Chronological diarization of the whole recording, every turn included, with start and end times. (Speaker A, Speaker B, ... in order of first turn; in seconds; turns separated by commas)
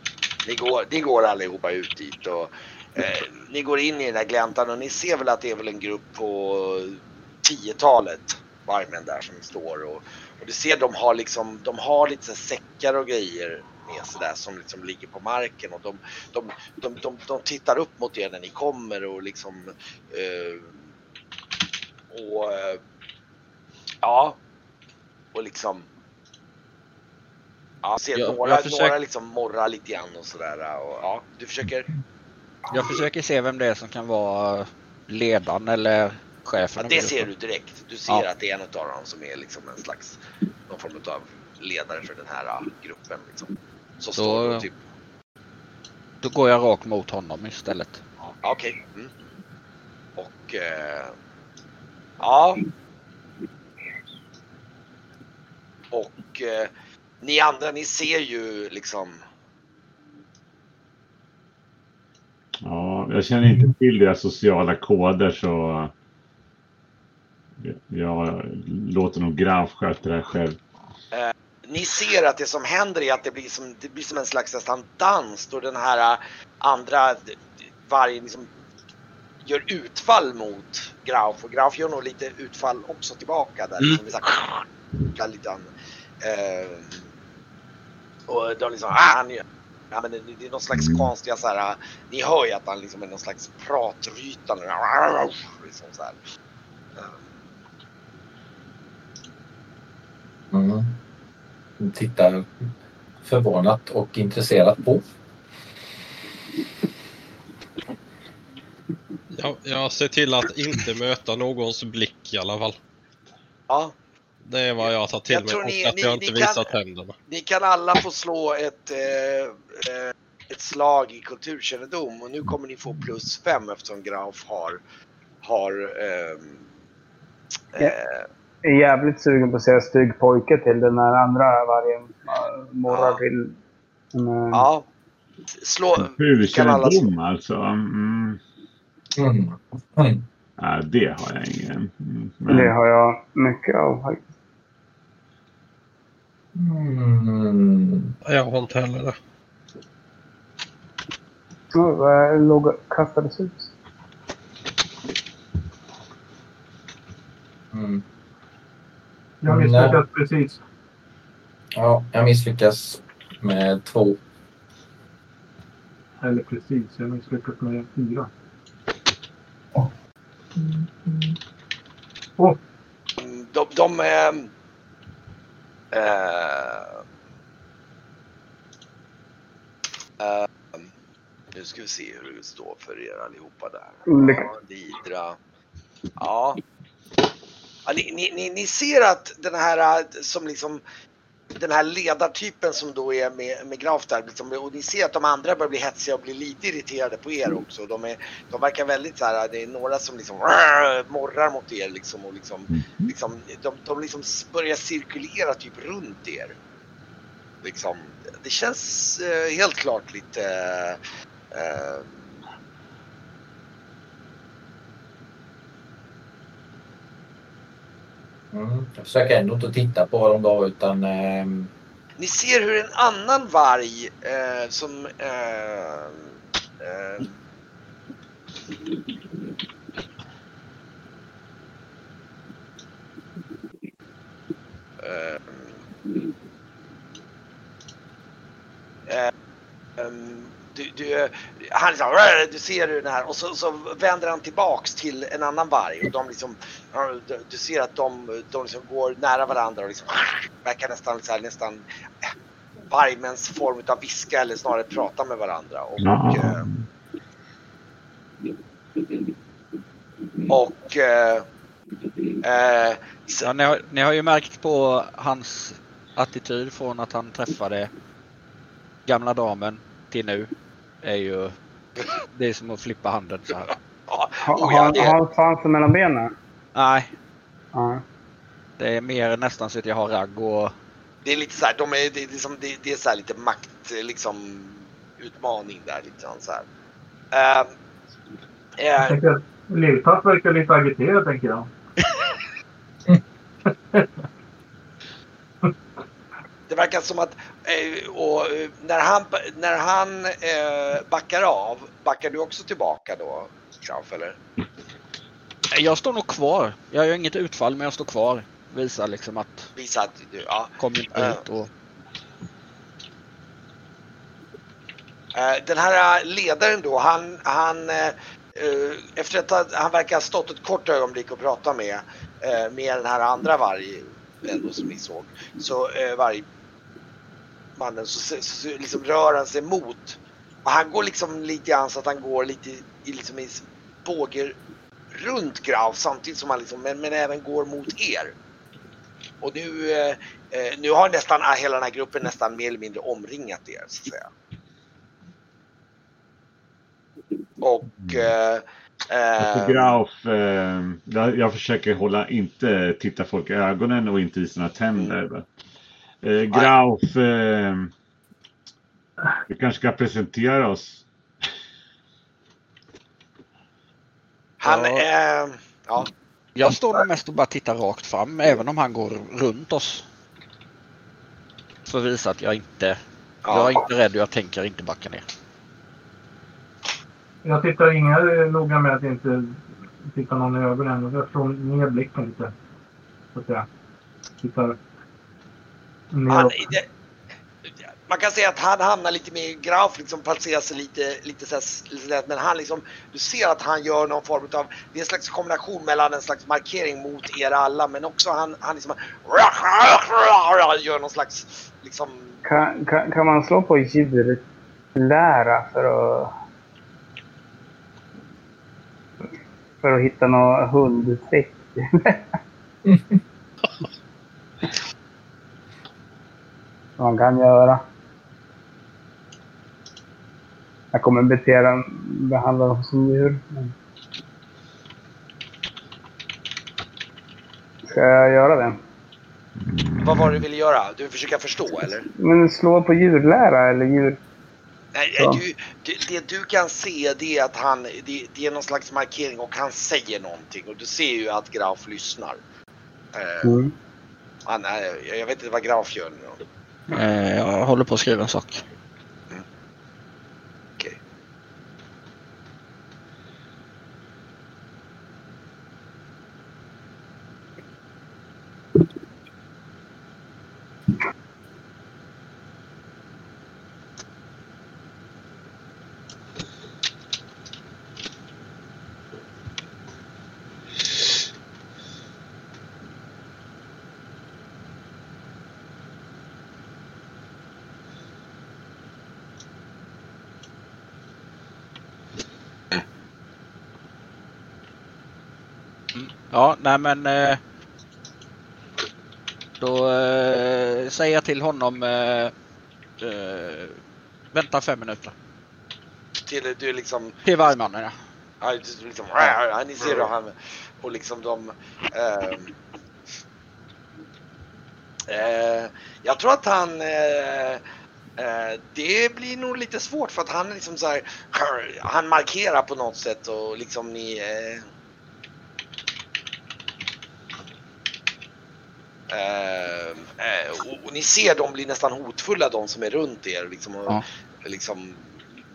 Speaker A: 0.4-20.8, Speaker A: 22.1-22.8, Speaker A: 24.0-24.4, Speaker A: 25.3-25.9, Speaker A: 27.8-31.9, Speaker B: 28.1-28.9, Speaker C: 32.7-37.3, Speaker A: 36.8-44.8, Speaker C: 44.2-44.6, Speaker C: 46.2-48.0, Speaker A: 48.4-49.1, Speaker A: 50.2-51.1, Speaker A: 52.2-52.6, Speaker A: 55.9-56.7, Speaker A: 57.2-59.2, Speaker D: 62.6-65.9, Speaker D: 67.6-70.6, Speaker A: 71.1-78.5, Speaker A: 79.4-85.7, Speaker A: 86.2-87.0, Speaker A: 88.3-96.2, Speaker D: 90.7-91.1, Speaker A: 96.9-97.3, Speaker E: 100.5-101.0, Speaker E: 101.8-102.5, Speaker E: 103.2-105.0, Speaker B: 109.3-112.8, Speaker A: 113.7-113.9, Speaker B: 114.5-117.1, Speaker A: 114.8-116.7, Speaker A: 117.3-124.8, Speaker A: 125.4-126.6, Speaker A: 127.8-128.2, Speaker F: 128.6-133.6, Speaker A: 132.9-133.2, Speaker F: 134.1-134.7, Speaker A: 134.5-134.8, Speaker A: 135.5-137.1, Speaker D: 136.0-138.4, Speaker E: 139.2-140.2, Speaker D: 140.6-142.7, Speaker F: 142.5-144.2, Speaker E: 146.6-148.2, Speaker B: 148.2-149.2, Speaker F: 151.8-153.7, Speaker E: 157.7-158.0, Speaker G: 159.4-160.6, Speaker E: 159.4-160.0, Speaker E: 161.8-164.2, Speaker G: 166.2-168.3, Speaker A: 173.2-174.5, Speaker A: 175.9-177.0, Speaker A: 180.2-180.9, Speaker A: 181.5-185.4, Speaker F: 184.1-184.5, Speaker A: 186.2-186.6, Speaker A: 187.8-190.8, Speaker A: 191.5-206.6, Speaker D: 202.7-203.1, Speaker A: 207.6-211.0, Speaker A: 211.5-212.3, Speaker E: 218.5-221.7, Speaker A: 222.2-226.3, Speaker A: 226.8-227.3, Speaker A: 235.0-235.7, Speaker A: 240.0-251.8, Speaker A: 252.9-256.6, Speaker D: 256.0-256.9, Speaker A: 260.5-261.5, Speaker A: 262.4-263.5, Speaker C: 263.4-267.9, Speaker C: 269.1-270.5, Speaker C: 271.0-271.5, Speaker C: 272.3-273.7, Speaker A: 274.1-275.2, Speaker F: 274.4-276.3, Speaker C: 276.7-277.1, Speaker F: 277.7-278.0, Speaker C: 278.8-280.7, Speaker A: 281.2-286.6, Speaker A: 287.3-287.7, Speaker A: 288.8-289.2, Speaker G: 289.0-291.7, Speaker A: 296.7-304.4, Speaker C: 305.7-309.7, Speaker A: 309.8-311.4, Speaker C: 310.8-311.7, Speaker A: 315.3-326.4, Speaker A: 327.8-334.6, Speaker A: 335.1-338.3, Speaker A: 339.4-344.3, Speaker A: 347.6-349.9, Speaker D: 348.0-348.3, Speaker D: 349.4-355.4, Speaker D: 356.2-357.9, Speaker D: 359.5-361.0, Speaker A: 364.6-366.1, Speaker C: 364.6-365.0, Speaker C: 366.5-370.0, Speaker C: 371.9-373.0, Speaker A: 373.4-373.8, Speaker C: 373.5-375.2, Speaker G: 377.4-382.5, Speaker G: 383.3-383.6, Speaker G: 384.4-384.8, Speaker G: 386.1-386.6, Speaker A: 386.3-386.9, Speaker A: 387.6-402.4, Speaker F: 402.4-404.4, Speaker F: 404.9-406.3, Speaker F: 409.8-412.2, Speaker E: 412.9-413.2, Speaker F: 417.0-417.8, Speaker F: 420.9-423.7, Speaker F: 427.9-428.8, Speaker D: 429.6-430.4, Speaker A: 430.0-432.1, Speaker F: 432.2-434.2, Speaker A: 434.9-442.4, Speaker A: 443.1-443.5, Speaker F: 443.4-443.7, Speaker A: 444.4-446.4, Speaker C: 446.9-448.6, Speaker C: 485.9-487.4, Speaker C: 489.6-492.3, Speaker C: 493.0-493.8, Speaker C: 494.3-495.1, Speaker A: 496.2-497.2, Speaker C: 497.2-497.9, Speaker A: 498.4-502.6, Speaker C: 499.2-500.1, Speaker A: 505.1-507.6, Speaker A: 508.2-514.6, Speaker A: 519.1-525.2